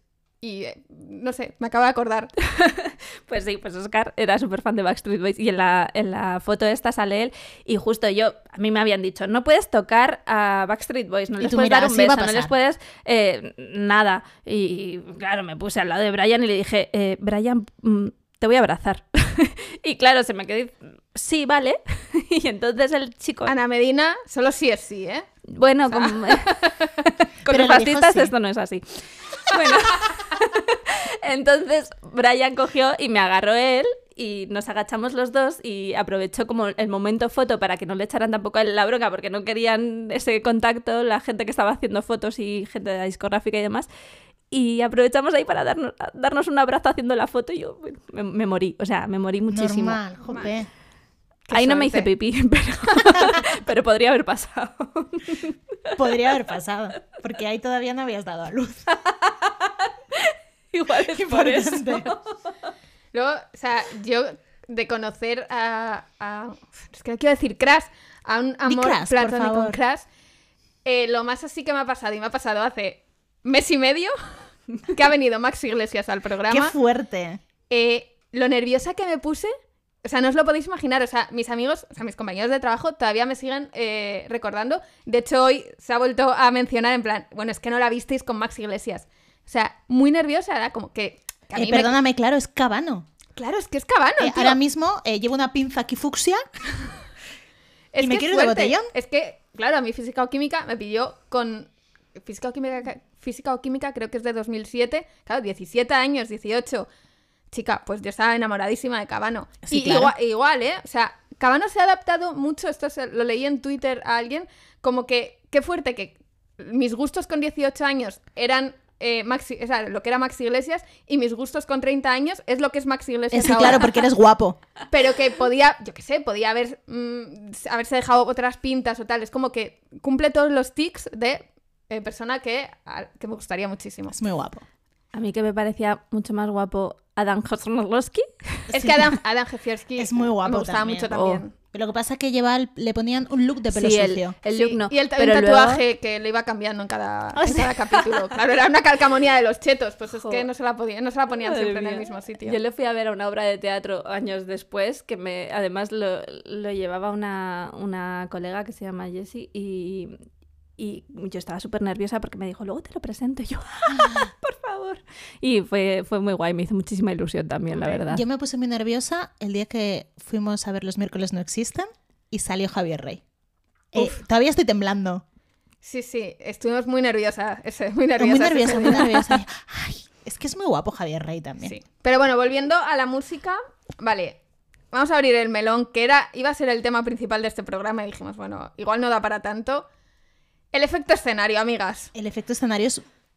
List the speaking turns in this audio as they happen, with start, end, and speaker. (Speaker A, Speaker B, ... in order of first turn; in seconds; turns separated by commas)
Speaker A: 0.4-2.3, Speaker B: 2.4-23.5, Speaker C: 11.4-12.5, Speaker A: 23.4-25.3, Speaker B: 25.5-43.9, Speaker A: 25.9-26.7, Speaker C: 27.4-28.3, Speaker B: 44.5-50.4, Speaker C: 49.5-50.7, Speaker A: 51.5-52.1, Speaker B: 51.5-55.5, Speaker C: 56.0-58.9, Speaker B: 59.1-62.3, Speaker C: 61.1-62.1, Speaker A: 63.1-70.0, Speaker C: 68.7-69.8, Speaker A: 70.8-74.1, Speaker A: 74.9-76.7, Speaker C: 76.5-77.4, Speaker A: 77.7-79.5, Speaker A: 80.0-91.9, Speaker C: 91.5-93.0, Speaker A: 93.3-94.6, Speaker C: 94.2-96.4, Speaker A: 97.9-106.9, Speaker C: 98.0-98.9, Speaker A: 107.5-124.0, Speaker C: 109.6-110.1, Speaker C: 123.3-124.6, Speaker A: 124.9-134.2, Speaker C: 134.1-134.6, Speaker B: 135.1-138.7, Speaker A: 138.7-141.5, Speaker C: 138.7-139.1, Speaker C: 140.0-141.1, Speaker B: 141.1-141.4, Speaker C: 141.7-144.3, Speaker B: 143.7-145.8, Speaker A: 144.5-152.6, Speaker C: 147.3-148.0, Speaker B: 151.4-160.2, Speaker B: 160.8-168.2, Speaker C: 163.9-164.3, Speaker C: 168.1-173.2, Speaker A: 173.9-174.2, Speaker C: 173.9-175.2, Speaker A: 175.8-179.3, Speaker C: 178.2-181.8, Speaker A: 181.6-184.4, Speaker A: 184.9-189.9, Speaker A: 190.7-192.1, Speaker C: 192.1-193.0